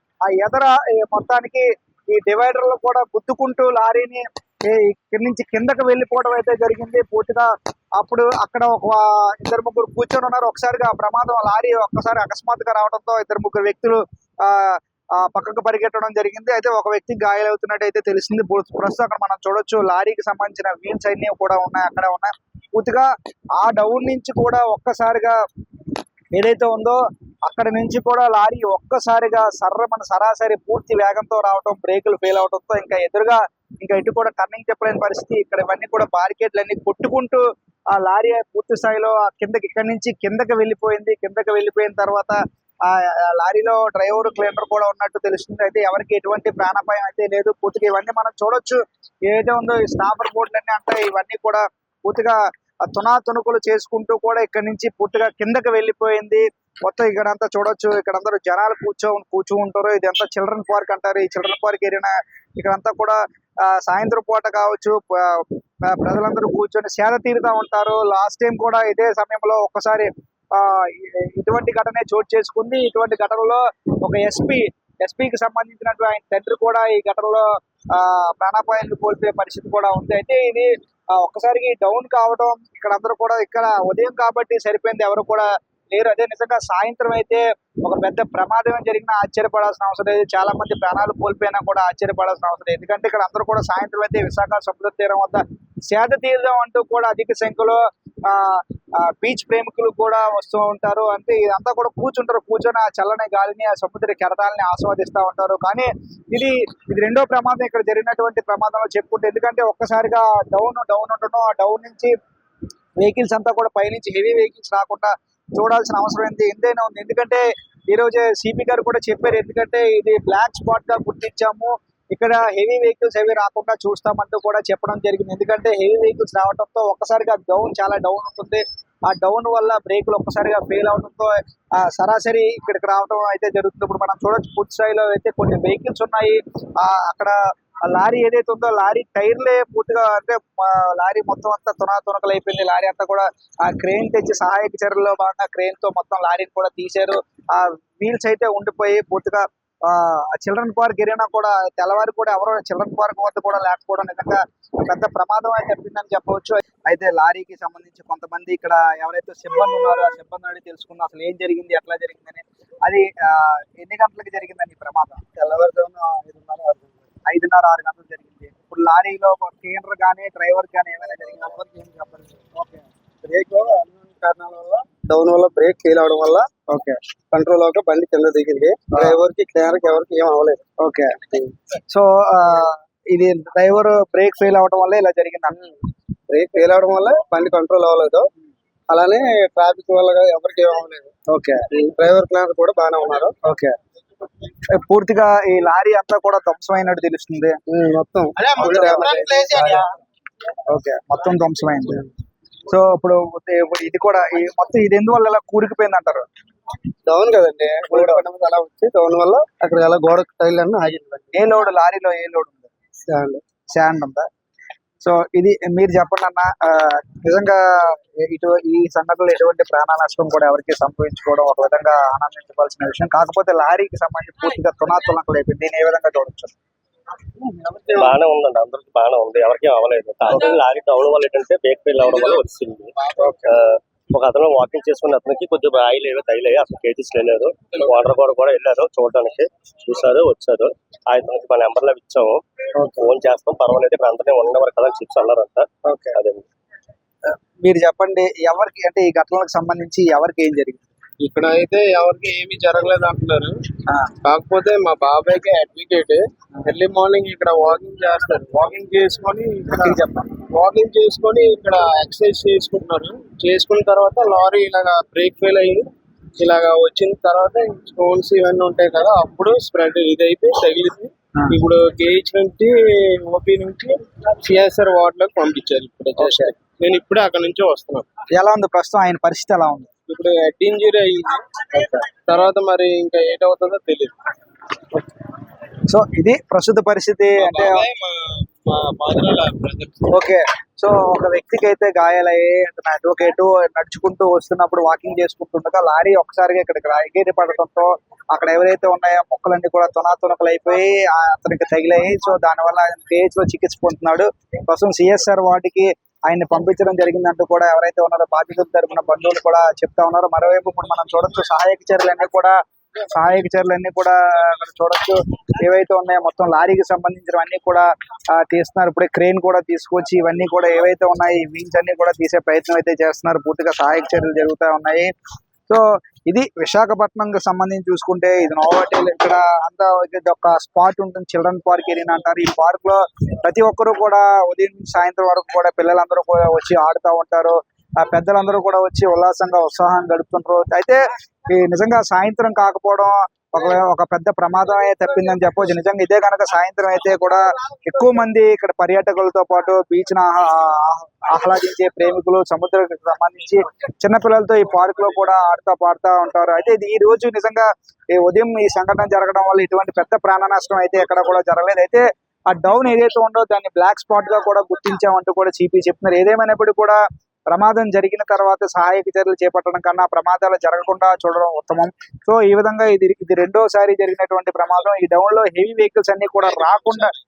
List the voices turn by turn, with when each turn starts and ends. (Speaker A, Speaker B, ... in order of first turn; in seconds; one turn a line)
Speaker A: 0.3-25.4
Speaker A: 26.3-37.4
Speaker A: 37.9-112.1
Speaker A: 113.0-165.2
Speaker B: 165.4-167.1
Speaker A: 167.2-171.6
Speaker B: 171.5-172.4
Speaker A: 172.5-172.8
Speaker B: 173.2-176.5
Speaker A: 176.7-177.0
Speaker B: 177.3-180.6
Speaker A: 178.9-179.2
Speaker A: 180.8-181.2
Speaker A: 181.9-185.6
Speaker B: 186.3-188.3
Speaker B: 188.9-191.1
Speaker A: 191.3-191.6
Speaker B: 191.7-193.4
Speaker A: 193.4-193.7
Speaker A: 194.7-197.6
Speaker B: 197.7-199.9
Speaker A: 198.5-199.7
Speaker A: 200.7-202.0
Speaker A: 202.7-206.3
Speaker B: 207.1-211.4
Speaker A: 207.9-208.2
Speaker A: 211.3-212.7
Speaker B: 213.1-213.4
Speaker A: 213.7-214.2
Speaker A: 215.0-226.5
Speaker B: 227.4-227.9
Speaker C: 227.9-232.9
Speaker C: 233.4-246.4
Speaker A: 242.8-243.1
Speaker A: 245.8-246.2
Speaker A: 247.2-250.8
Speaker D: 251.2-253.6
Speaker D: 254.2-259.9
Speaker A: 259.7-260.3
Speaker D: 260.5-278.1
Speaker A: 271.3-271.6
Speaker A: 276.2-276.5
Speaker A: 278.3-279.9
Speaker D: 280.1-281.4
Speaker A: 281.7-282.0
Speaker D: 282.2-284.1
Speaker A: 285.9-287.9
Speaker D: 287.4-290.0
Speaker A: 290.1-325.1
Speaker A: 325.7-367.0
Speaker A: 367.5-377.1